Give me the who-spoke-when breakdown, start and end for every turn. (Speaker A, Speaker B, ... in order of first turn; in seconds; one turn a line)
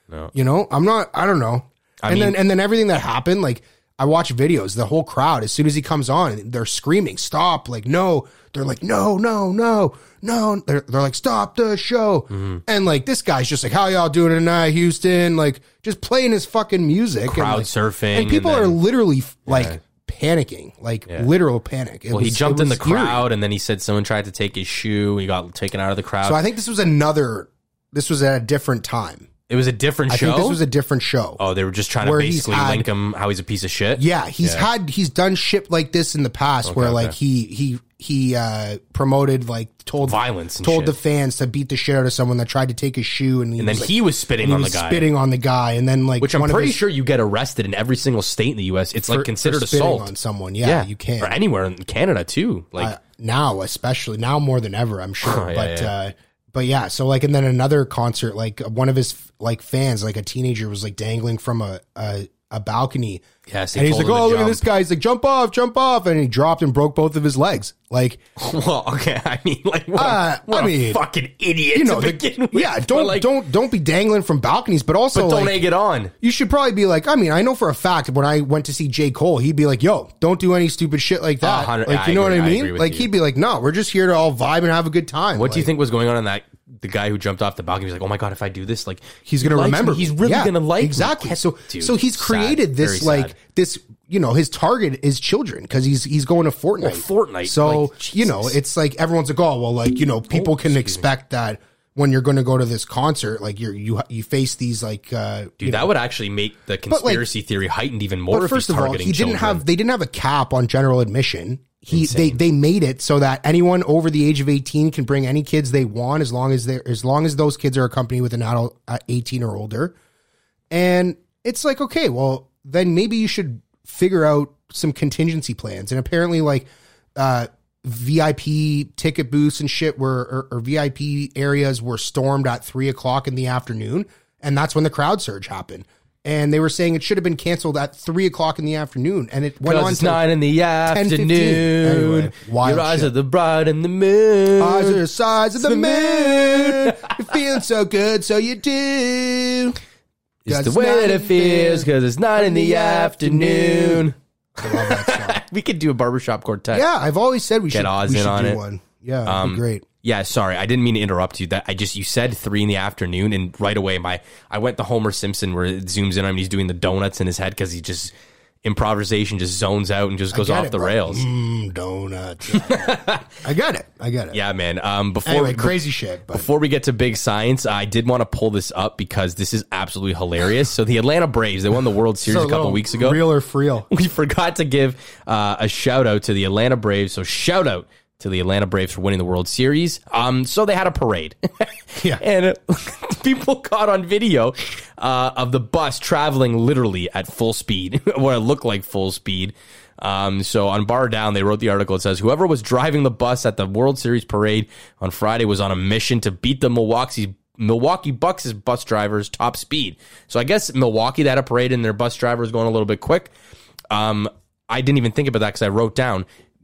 Speaker A: 0.3-23.3
Speaker B: 2.0-2.4
Speaker B: 12.3-12.6
Speaker B: 17.3-18.8
Speaker B: 19.5-19.8
Speaker B: 22.1-26.4
Speaker A: 26.2-29.3
Speaker B: 29.5-30.6
Speaker A: 30.1-31.4
Speaker B: 31.4-34.7
Speaker A: 32.0-32.9
Speaker A: 34.0-46.8
Speaker B: 36.6-37.1
Speaker B: 40.0-41.0
Speaker B: 43.6-45.1
Speaker B: 46.2-53.0
Speaker A: 49.1-51.4
Speaker A: 52.8-68.2
Speaker B: 55.2-55.9
Speaker B: 63.5-64.7
Speaker B: 68.4-73.3
Speaker A: 70.0-71.0
Speaker A: 71.7-75.6
Speaker B: 75.1-76.1
Speaker A: 76.2-85.7
Speaker B: 81.4-83.1
Speaker B: 85.3-93.4
Speaker A: 89.3-105.9
Speaker B: 96.8-98.5
Speaker B: 100.3-101.1
Speaker B: 105.6-109.7
Speaker A: 106.9-107.3
Speaker A: 108.3-120.0
Speaker B: 111.9-112.4
Speaker A: 120.7-140.3
Speaker B: 139.6-145.0
Speaker A: 140.8-143.1
Speaker A: 144.6-149.8
Speaker B: 145.6-147.3
Speaker B: 150.5-156.9
Speaker A: 150.5-155.4
Speaker A: 156.7-159.8
Speaker B: 157.7-158.6
Speaker B: 159.3-168.1
Speaker B: 168.6-171.3
Speaker A: 170.3-174.4
Speaker B: 172.5-173.4
Speaker B: 174.3-175.8
Speaker A: 175.2-176.5
Speaker B: 176.3-183.2
Speaker A: 182.2-183.9
Speaker B: 183.9-213.3
Speaker B: 213.9-216.3